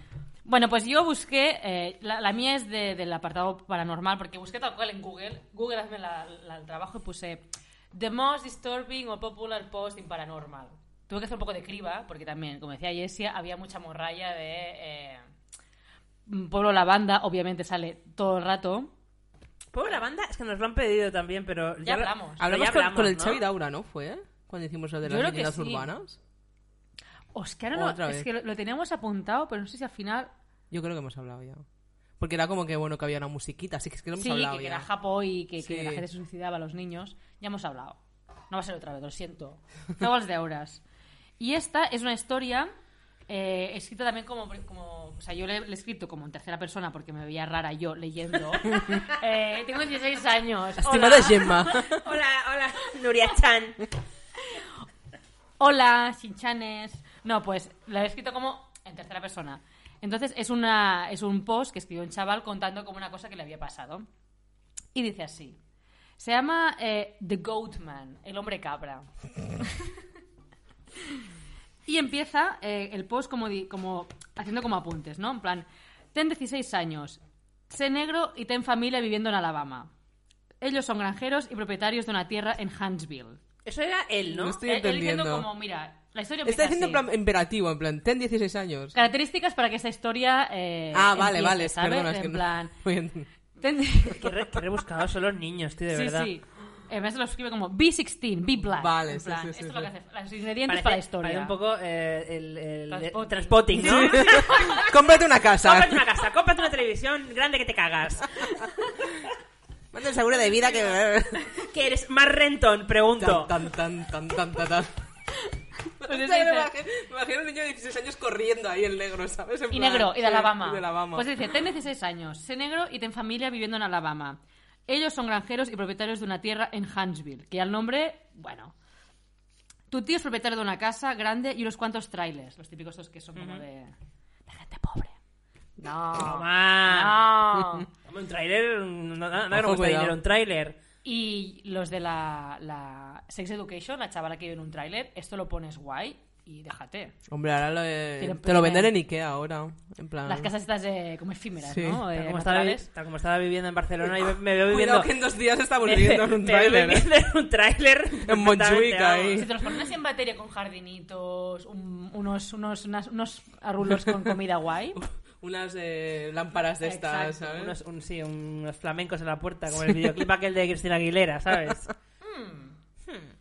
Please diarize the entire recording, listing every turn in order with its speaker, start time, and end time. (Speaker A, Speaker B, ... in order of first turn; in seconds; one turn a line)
Speaker A: 0.5-15.3
Speaker A: 16.3-18.9
Speaker B: 19.7-23.4
Speaker A: 21.8-22.4
Speaker C: 22.4-26.2
Speaker A: 25.0-25.9
Speaker A: 27.3-30.3
Speaker C: 27.7-28.3
Speaker C: 30.7-31.6
Speaker C: 32.2-34.9
Speaker A: 34.2-38.0
Speaker C: 35.6-36.0
Speaker A: 38.5-40.8
Speaker A: 41.4-42.7
Speaker A: 43.3-51.7
Speaker C: 50.8-52.0
Speaker B: 51.5-53.8
Speaker A: 55.6-64.1
Speaker A: 64.9-65.6
Speaker A: 66.2-69.1
Speaker A: 71.9-79.9
Speaker A: 80.6-83.4
Speaker B: 83.7-84.6
Speaker C: 84.3-85.5
Speaker A: 84.6-87.0
Speaker C: 86.5-89.0
Speaker A: 88.9-92.7
Speaker C: 90.9-93.3
Speaker A: 93.6-94.3
Speaker B: 94.1-96.3
Speaker A: 95.9-101.5
Speaker C: 98.7-99.9
Speaker B: 100.7-104.8
Speaker A: 102.9-104.9
Speaker C: 103.7-106.0
Speaker B: 105.6-108.5
Speaker C: 109.9-111.5
Speaker B: 111.5-113.6
Speaker C: 113.2-114.9
Speaker C: 116.0-121.3
Speaker A: 116.0-116.7
Speaker A: 119.7-128.7
Speaker A: 129.9-133.9
Speaker B: 133.4-133.6
Speaker A: 134.5-135.2
Speaker A: 135.8-137.9
Speaker B: 136.2-137.2
Speaker B: 138.1-140.8
Speaker C: 139.5-140.2
Speaker A: 141.0-147.2
Speaker C: 147.3-150.5
Speaker A: 148.2-148.9
Speaker A: 150.3-152.9
Speaker C: 151.7-152.0
Speaker B: 152.1-155.2
Speaker C: 154.7-157.1
Speaker B: 155.8-159.5
Speaker C: 158.2-159.5
Speaker A: 159.3-165.0
Speaker C: 165.4-167.8
Speaker A: 166.8-167.4
Speaker B: 167.4-171.9
Speaker A: 172.2-172.8
Speaker B: 173.1-173.3